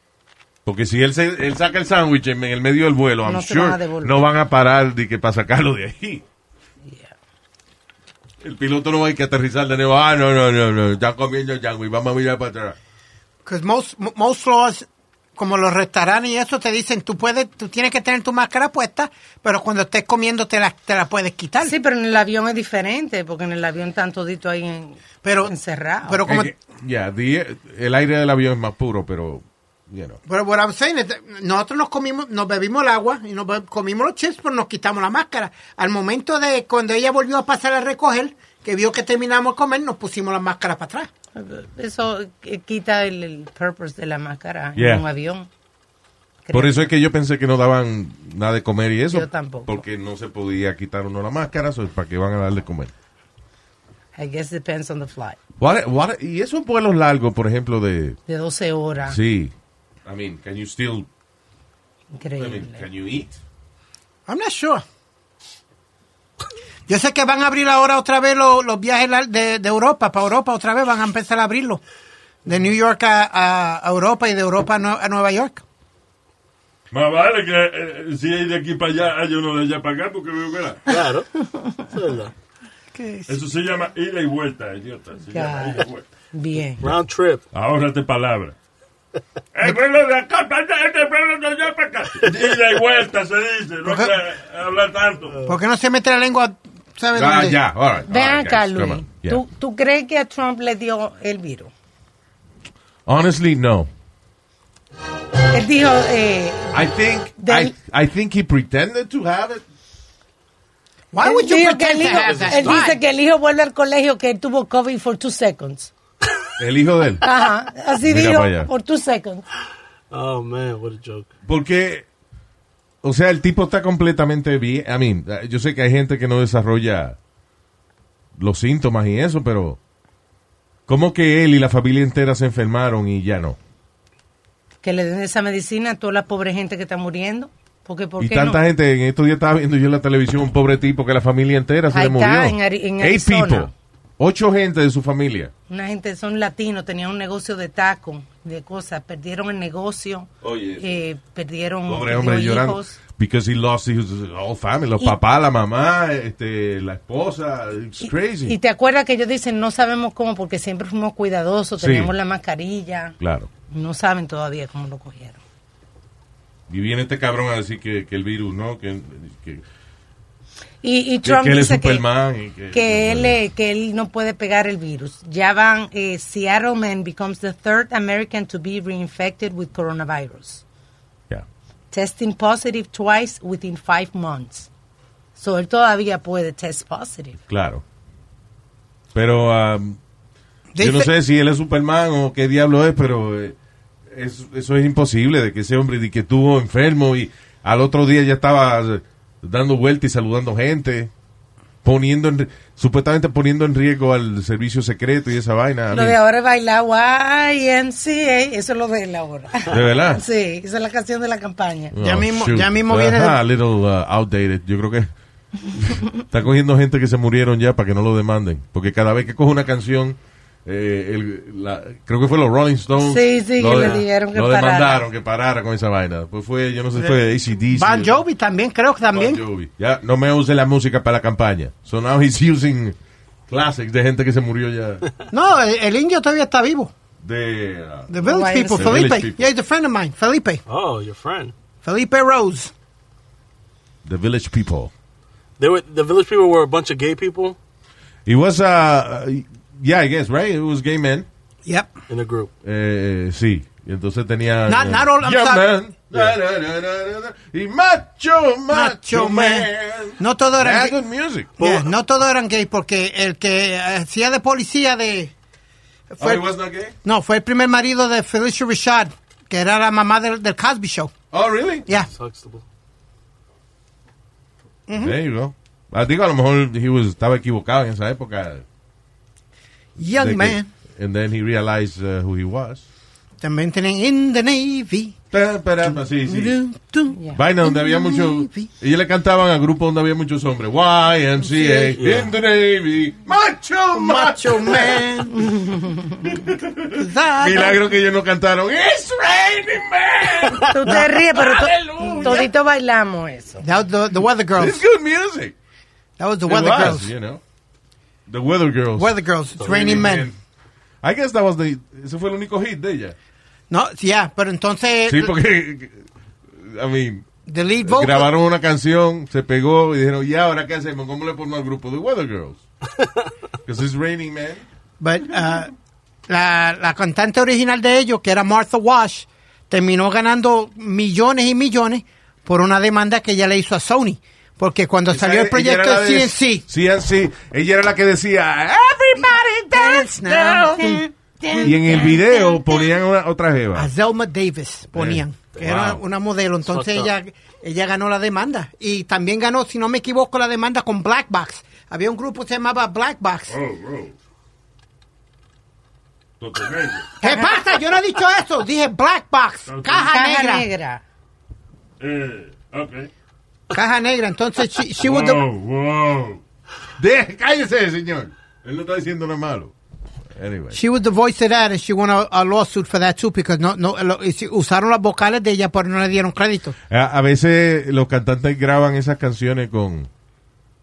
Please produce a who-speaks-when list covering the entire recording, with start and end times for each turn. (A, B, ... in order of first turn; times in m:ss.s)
0:00.6-0:06.2 A
0:03.2-0:04.2 B
0:06.8-0:07.1 B
0:08.4-0:12.8 A
0:13.4-0:21.7 C
0:21.6-0:26.2 B
0:25.2-0:26.5 C
0:26.2-0:30.2 A
0:30.3-0:41.1 C
0:41.3-0:45.5 B
0:44.8-0:45.0 A
0:46.4-0:46.9 B
0:46.5-0:52.9 A
0:49.1-0:49.8 B
0:54.2-0:55.4 B
0:55.6-0:58.2 A
0:58.3-0:59.2 B
0:59.0-0:59.5 A
1:00.0-1:01.1 A
1:02.1-1:02.8 B
1:02.4-1:03.4 A
1:04.3-1:04.8 C
1:06.9-1:11.8 C
1:12.4-1:15.6 C
1:16.9-1:20.8 D
1:20.9-1:22.3 E
1:21.5-1:21.9 B
1:22.9-1:23.4 C
1:23.3-1:26.0 D
1:25.3-1:26.9 B
1:26.8-1:27.4 E
1:27.5-1:28.5 D
1:29.5-1:35.4 D
1:33.8-1:34.2 C
1:35.4-1:37.6 C
1:37.1-1:39.4 A
1:38.1-1:41.7 B
1:43.0-1:43.9 A
1:45.5-1:46.7 B
1:46.7-1:49.6 A
1:47.4-1:47.7 B
1:51.1-1:53.0 C
1:51.2-1:55.9 B
1:52.2-1:52.8 E
1:56.6-1:57.2 A
1:57.2-1:59.4 B
1:58.0-1:58.7 A
2:00.1-2:01.3 E
2:01.4-2:02.0 A
2:03.0-2:07.2 A
2:08.4-2:09.8 A
2:10.9-2:13.6 A
2:14.8-2:18.6 B
2:18.2-2:25.5 A
2:21.9-2:23.7 B
2:25.7-2:33.0 B
2:30.4-2:31.0 A
2:31.9-2:38.6 A
2:38.0-2:43.1 B
2:41.8-2:42.1 A
2:43.2-2:43.5 A
2:43.7-2:45.4 B
2:46.7-2:49.6 A
2:50.8-2:52.0 B
2:51.2-2:53.4 A
2:52.7-3:00.6 B
3:01.9-3:04.7 B
3:05.3-3:07.4 B
3:07.5-3:07.8 A
3:09.1-3:10.0 A
3:10.7-3:11.1 C
3:10.8-3:13.6 A
3:14.1-3:21.1 A
3:21.8-3:26.2 A
3:25.9-3:31.9 B
3:29.7-3:30.2 A
3:31.9-3:35.1 A
3:32.0-3:33.4 C
3:35.7-3:48.2 A
3:43.0-3:45.0 B
3:47.7-3:49.4 C
3:49.1-3:53.0 A
3:53.5-3:55.1 A
3:55.3-3:56.9 C
3:57.2-3:58.1 A
3:58.1-4:00.6 C
3:58.2-3:59.1 B
3:58.7-3:59.5 A
4:00.7-4:01.5 E
4:01.8-4:02.7 C
4:04.0-4:04.9 A
4:05.6-4:07.6 E
4:08.2-4:11.3 A
4:11.6-4:12.0 C
4:12.1-4:12.5 E
4:12.6-4:21.5 A
4:14.7-4:15.7 C
4:18.7-4:21.0 C
4:21.6-4:21.9 E
4:21.6-4:25.3 C
4:26.1-4:26.5 C
4:26.2-4:26.9 A
4:27.0-4:31.1 C
4:31.3-4:31.9 A
4:32.1-4:32.6 E
4:34.9-4:35.2 C
4:35.0-4:38.6 A
4:40.0-4:40.7 C
4:40.1-4:42.8 A
4:43.4-4:45.2 C
4:45.3-4:46.6 A
4:45.8-4:48.7 C
4:47.1-4:47.4 B
4:47.3-4:55.1 A
4:51.4-4:52.0 C
4:52.0-4:52.3 E
4:53.9-4:55.5 C
4:55.5-4:56.2 B
4:56.2-5:01.0 A
4:56.9-4:57.8 C
5:00.5-5:03.6 B
5:01.6-5:02.4 A
5:01.9-5:02.3 D
5:03.6-5:04.8 C
5:04.6-5:05.5 A
5:06.2-5:07.1 C
5:06.4-5:07.4 A
5:08.3-5:10.4 A
5:09.0-5:10.3 C
5:09.6-5:10.0 E
5:11.0-5:13.1 A
5:13.7-5:15.3 C
5:15.1-5:16.0 A
5:16.6-5:17.3 A
5:17.5-5:18.3 C
5:17.8-5:22.6 A
5:23.6-5:24.6 A
5:25.0-5:25.7 C
5:26.3-5:36.6 C
5:35.1-5:41.0 A
5:39.2-5:42.2 C
5:40.8-5:42.6 B
5:41.6-5:43.9 A
5:43.7-5:53.6 C
5:44.9-5:46.0 A
5:46.7-5:47.1 E
5:53.5-5:54.1 D
5:56.4-5:57.1 D
5:57.2-5:57.6 B
5:57.2-6:00.7 C
5:59.7-6:00.1 D
5:59.9-6:01.0 B
6:02.0-6:03.1 D
6:03.7-6:05.4 C
6:05.0-6:06.4 D
6:07.0-6:09.7 A
6:10.3-6:10.8 A
6:10.7-6:16.8 C
6:16.9-6:20.1 A